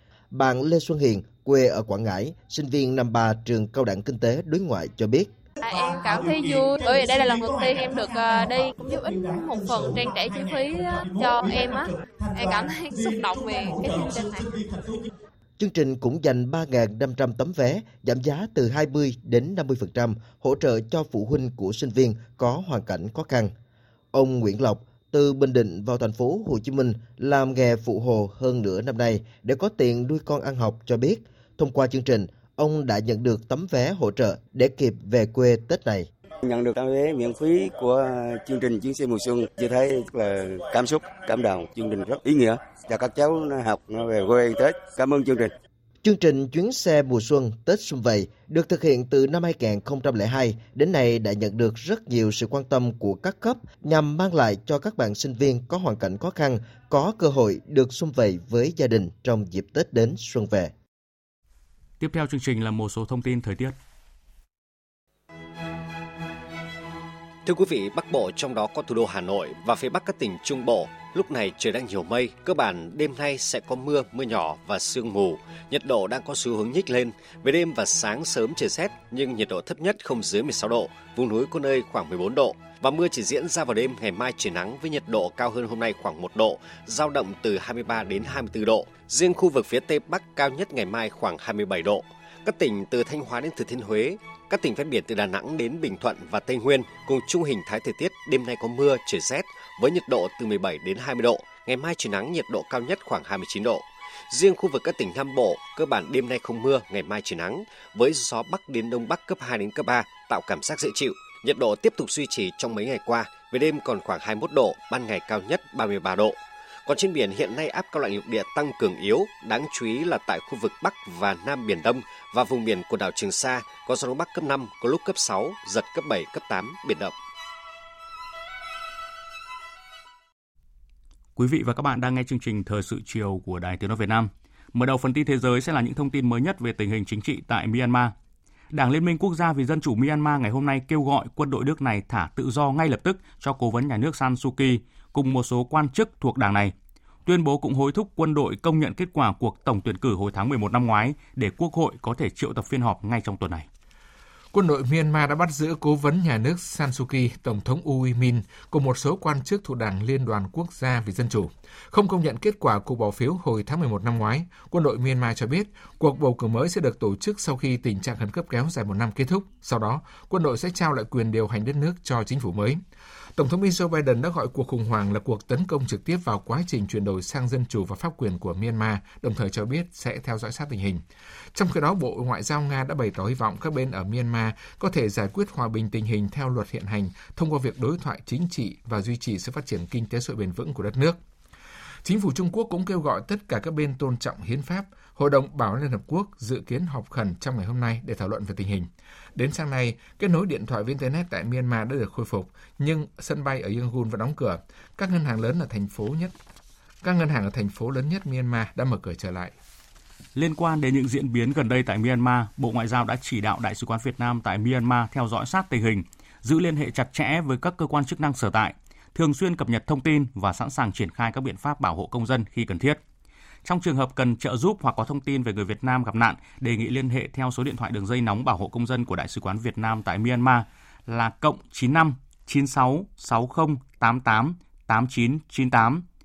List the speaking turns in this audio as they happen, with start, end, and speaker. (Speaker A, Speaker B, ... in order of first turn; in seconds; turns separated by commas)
Speaker A: 0.3-5.3, Speaker B: 5.6-14.5, Speaker A: 15.6-23.5, Speaker A: 24.1-36.1, Speaker C: 36.4-45.5, Speaker A: 46.0-60.7, Speaker D: 62.0-63.8, Speaker E: 67.5-127.1, Speaker D: 131.4-138.1, Speaker D: 138.7-146.7, Speaker D: 147.3-153.7, Speaker F: 154.5-172.8, Speaker F: 173.4-181.0, Speaker F: 181.5-191.2, Speaker F: 192.0-206.3, Speaker F: 207.0-209.6, Speaker D: 210.3-223.0, Speaker D: 223.7-236.0